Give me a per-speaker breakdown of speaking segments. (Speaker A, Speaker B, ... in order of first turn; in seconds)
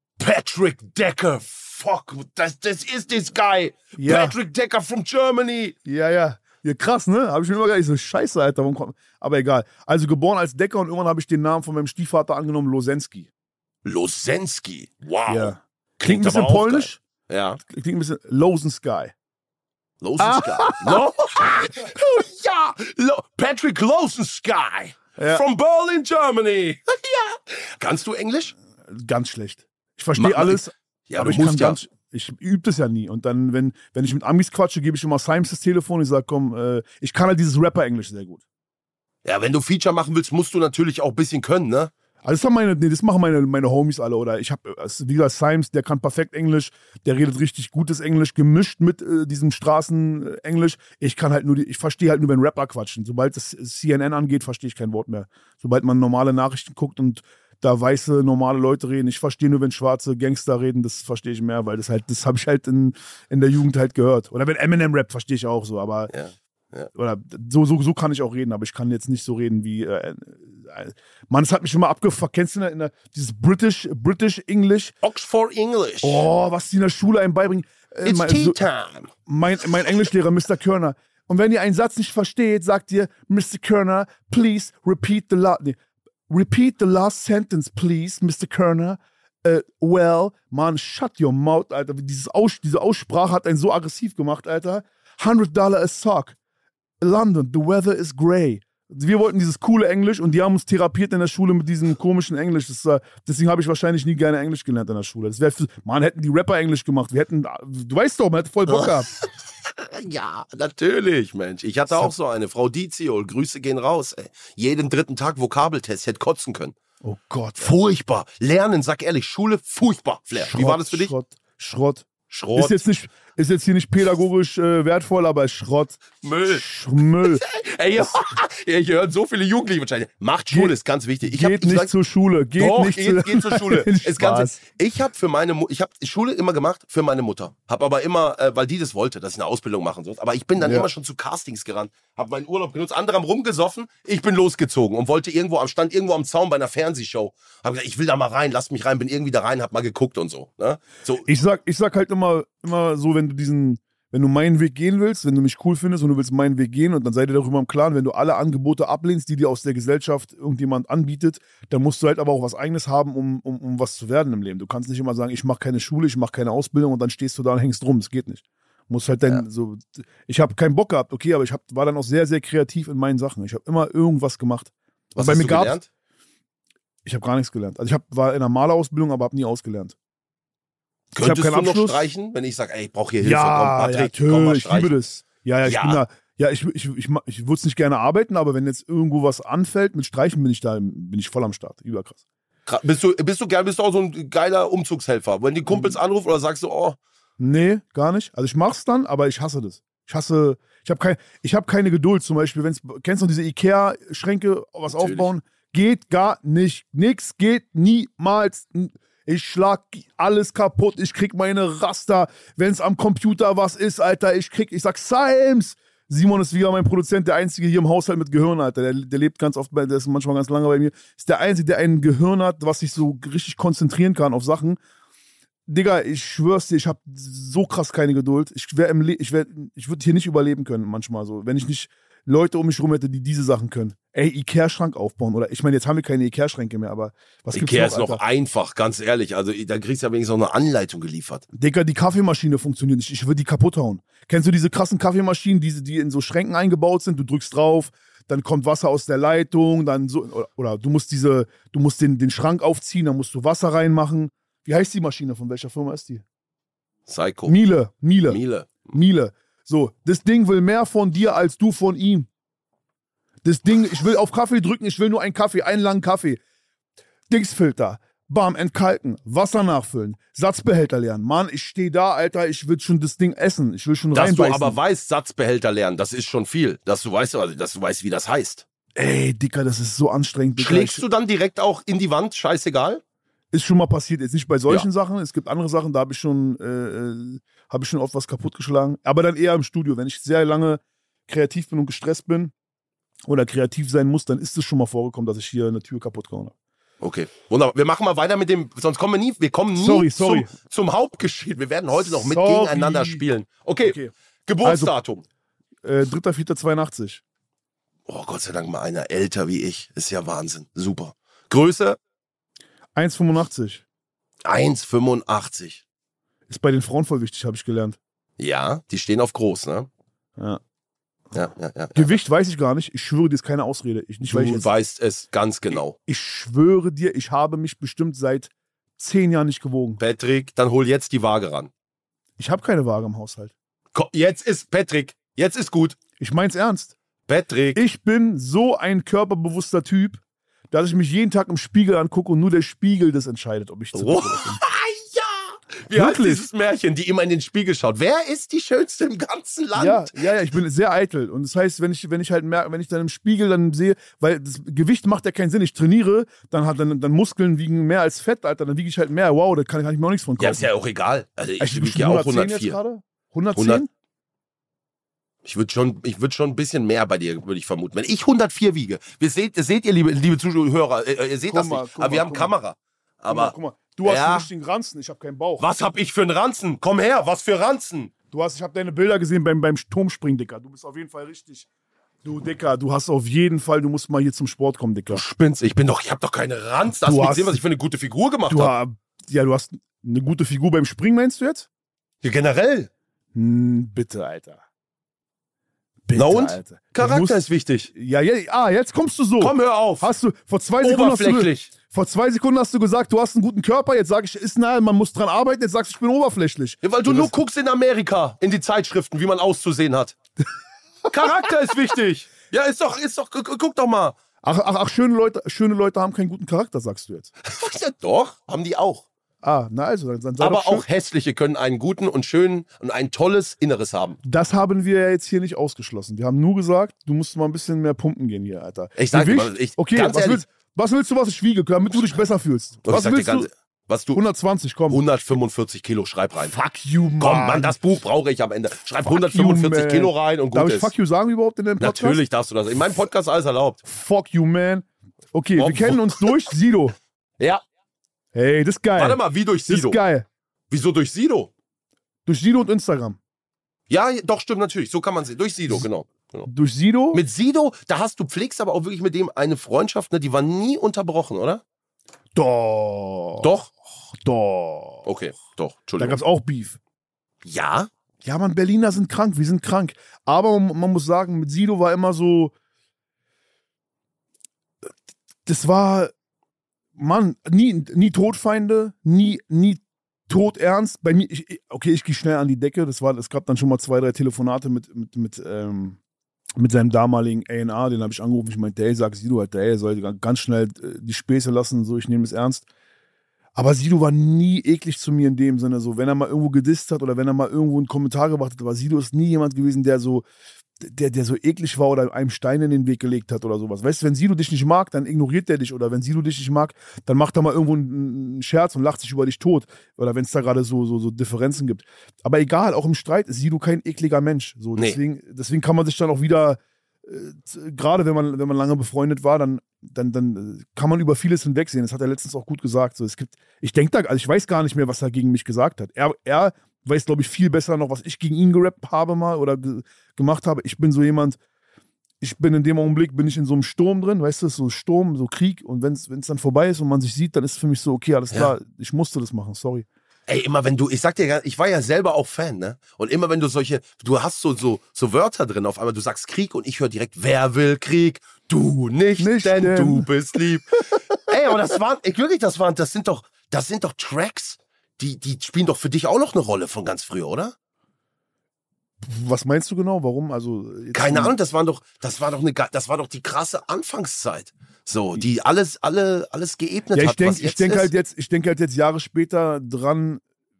Speaker A: 0.2-5.7, 13.8-17.6, 20.0-28.5, 30.2-31.8, 39.2-41.9, 66.1-66.9, 75.0-76.3, 78.0-79.1, 108.7-116.7, 117.6-121.1, 122.3-122.8, 126.2-131.9, 132.6-151.2, 175.1-175.8, 181.1-184.9, 185.6-186.0, 192.7-197.0, 204.9-205.3, 237.5-241.4, 257.1-257.5, 258.3-258.9, 274.1-278.6, 280.6-283.0, 297.0-305.2, 308.1-312.0, 314.4-315.8, 318.4-319.9, 321.3-322.2, 324.2-325.9, 330.0-331.7, 333.9-336.0, 337.3-337.8, 343.9-350.2, 360.4-362.8, 363.5-363.8, 365.4-374.5, 375.6-378.1, 385.1-388.7, 392.2-392.9, 396.1-397.9, 399.4-400.1, 400.8-401.7, 406.8-410.1, 411.1-414.2, 417.4-419.0, 420.4-424.2, 428.9-430.4, 431.9-432.2, 432.8-434.2, 434.9-436.5, 437.2-440.9, 441.8-443.8, 445.6-446.3, 449.0-450.0, 450.7-451.5, 453.9-456.5, 457.1-461.6, 463.4-463.7, 465.0-466.2, 467.4-467.9, 540.3-557.5, 560.9-567.9
Speaker B: 4.0-4.3, 5.8-13.3, 15.3-17.0, 17.7-19.1, 20.2-21.1, 25.2-25.4, 28.9-38.4, 42.2-66.1, 66.9-74.9, 76.0-78.6, 79.2-85.8, 86.3-96.3, 97.0-109.1, 117.0-117.7, 120.3-127.4, 130.5-134.6, 140.6-140.9, 151.2-175.8, 177.0-179.9, 181.2-182.1, 183.2-192.2, 195.7-195.9, 197.4-224.8, 225.7-238.2, 241.5-256.2, 257.4-262.3, 263.4-266.4, 267.3-274.8, 278.9-281.0, 283.5-292.5, 293.2-296.5, 299.7-300.5, 302.0-303.2, 303.8-304.1, 304.6-304.9, 305.8-307.2, 312.9-313.8, 316.5-318.0, 321.9-324.7, 325.7-330.0, 332.4-333.5, 336.2-336.9, 337.7-340.2, 340.7-344.6, 345.9-346.4, 349.7-360.7, 361.6-363.9, 371.5-372.5, 373.3-375.6, 378.3-381.6, 382.2-385.2, 386.9-387.6, 388.5-391.7, 393.3-394.6, 396.1-407.3, 414.4-417.3, 419.4-420.9, 424.2-433.5, 434.1-435.0, 436.5-437.8, 439.0-442.2, 443.8-446.9, 448.3-450.2, 452.2-453.2, 456.4-457.2, 462.3-463.5, 464.2-465.1, 466.0-466.8, 468.2-472.5, 475.4-476.1, 476.9-486.0, 486.6-492.6, 493.5-500.2, 500.8-531.4, 532.2-539.9, 549.2-550.1, 559.0-561.3, 566.9-570.2